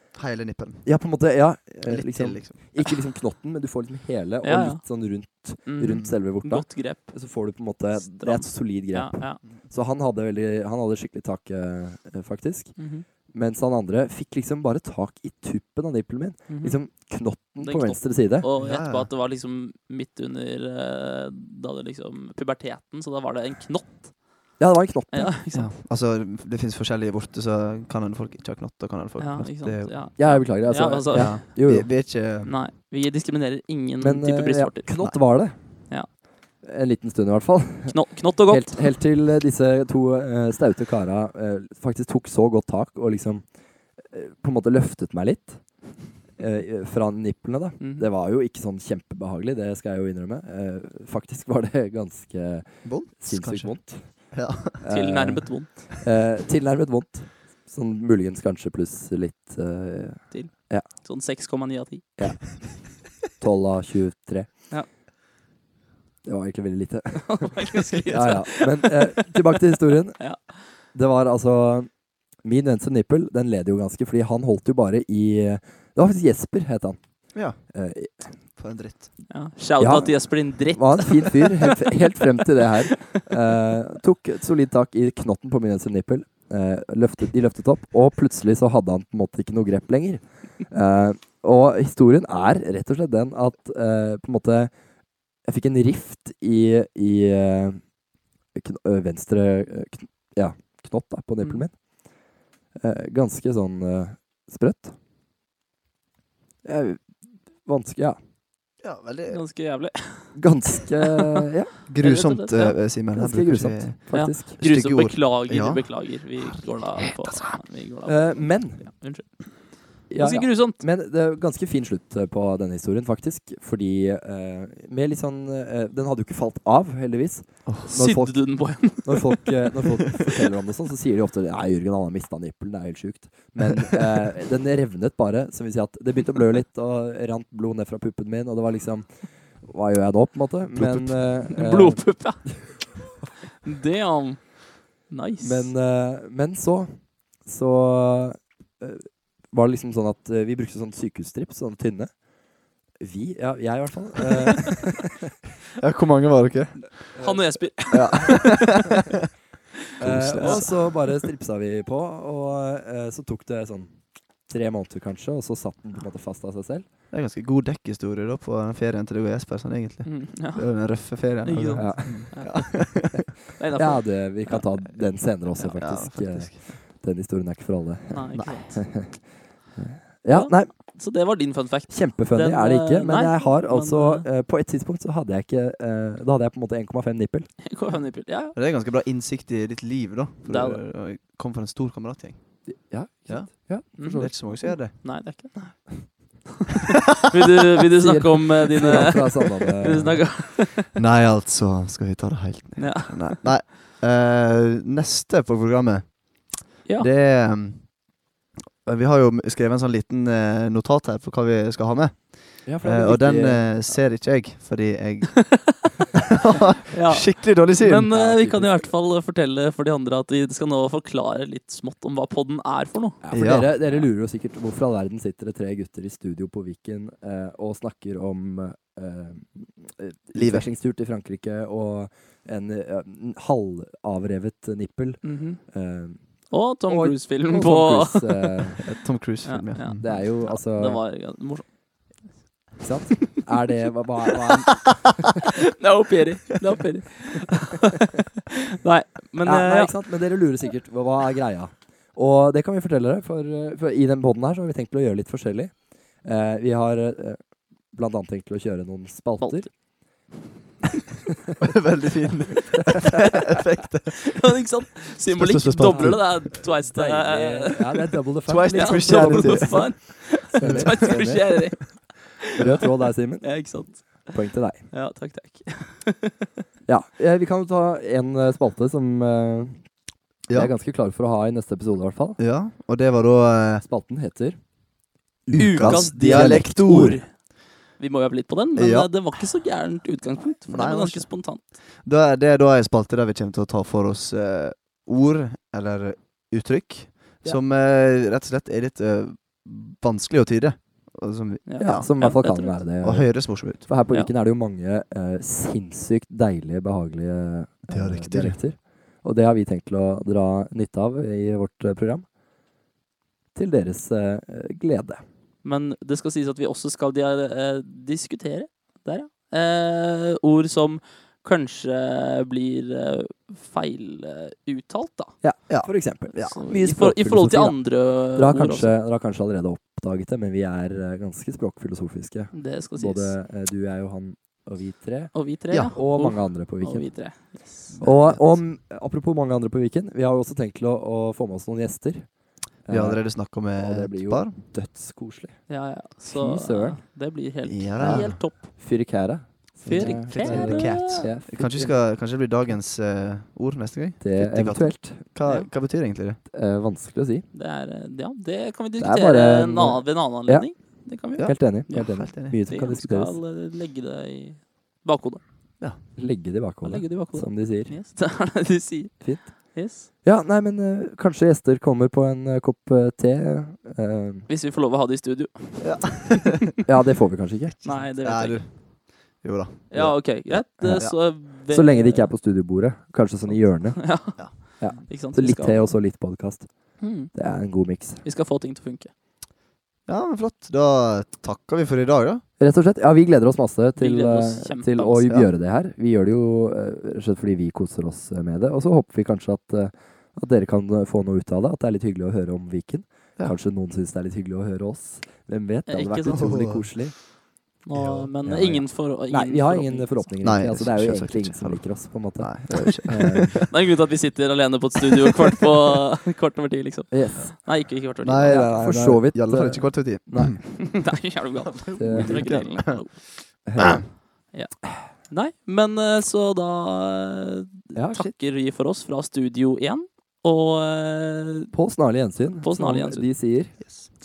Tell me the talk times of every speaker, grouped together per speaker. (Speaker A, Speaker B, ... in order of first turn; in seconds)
Speaker A: 0.1-1.2, 1.8-2.8, 18.6-19.1, 25.5-30.4, 31.1-32.5, 52.8-54.9, 77.3-77.6, 78.6-79.1, 108.8-109.4, 111.9-117.6, 127.7-127.9, 140.7-141.2, 155.8-157.2, 157.9-159.1, 160.0-160.8, 167.1-173.2, 175.7-176.6, 178.3-178.8, 188.5-192.7, 193.3-195.2, 200.9-208.1, 208.8-215.9, 216.5-218.1, 223.3-223.7, 230.3-230.7, 238.8-240.0, 261.6-264.4, 265.3-266.7, 268.4-270.0, 270.6-271.0, 282.4-283.8, 285.5-287.2, 288.8-289.3, 290.7-302.4, 303.0-303.9, 307.9-308.6, 325.7-326.6, 337.9-338.6, 342.9-344.6, 347.6-348.5, 349.9-356.4, 361.4-362.6, 375.8-376.7, 377.8-379.9, 384.4-385.0, 390.1-392.4, 406.3-406.9, 407.9-408.3, 410.4-413.7, 418.2-420.8, 421.6-424.0, 433.8-434.1
Speaker B: 0.8-18.5, 24.6-25.4, 30.1-31.9, 34.0-60.9, 62.2-64.6, 66.2-67.5, 68.1-70.3, 70.8-71.9, 72.4-78.3, 79.8-94.7, 95.3-97.9, 98.5-101.8, 102.7-104.9, 106.6-108.2, 110.3-111.7, 113.1-114.6, 118.0-118.9, 120.1-142.5, 145.4-152.3, 153.0-155.3, 157.1-158.1, 160.0-166.9, 171.8-172.7, 173.7-180.7, 181.9-187.5, 192.7-194.7, 198.0-200.4, 212.6-213.9, 218.0-218.9, 223.2-238.8, 239.9-241.1, 242.8-245.2, 249.4-259.7, 265.9-271.9, 272.5-274.9, 276.9-282.4, 283.8-284.6, 285.4-287.2, 301.8-312.2, 313.5-315.2, 325.4-347.0, 348.0-351.9, 354.2-355.2, 356.5-357.5, 359.0-360.7, 361.2-363.4, 366.1-367.9, 369.2-374.5, 376.9-377.9, 379.9-388.2, 392.6-407.2, 408.4-413.6, 417.1-417.6, 418.4-420.6, 422.0-422.6, 423.7-424.2, 427.9-428.3, 431.7-433.8
Speaker C: 4.4-9.4, 12.8-13.1, 16.5-25.7, 29.2-31.5, 32.4-35.3, 37.9-38.9, 47.8-48.1, 54.9-55.8, 60.3-62.1, 67.2-69.4, 70.2-70.5, 79.3-82.2, 101.4-101.7, 109.3-111.2, 112.0-112.8, 114.1-120.8, 127.9-129.7, 141.4-143.1, 143.6-145.7, 157.2-158.8, 160.4-161.1, 170.0-170.8, 171.4-175.0, 178.1-178.9, 180.3-184.3, 187.6-188.6, 190.4-190.8, 194.0-200.9, 202.8-203.5, 216.9-223.2, 235.2-235.6, 236.5-238.8, 239.4-242.2, 245.8-248.1, 248.8-250.2, 259.4-259.7, 264.3-276.4, 285.5-291.6, 301.6-302.8, 315.6-325.4, 326.4-328.9, 332.5-333.4, 335.3-337.9, 345.7-348.7, 349.8-351.3, 357.5-365.4, 366.8-370.1, 374.5-376.5, 377.8-378.7, 379.9-382.3, 383.4-386.0, 387.0-387.5, 388.2-389.1, 393.9-395.5, 405.9-406.5, 407.8-410.3, 413.7-418.6, 420.6-423.6, 424.5-431.7, 432.5-433.4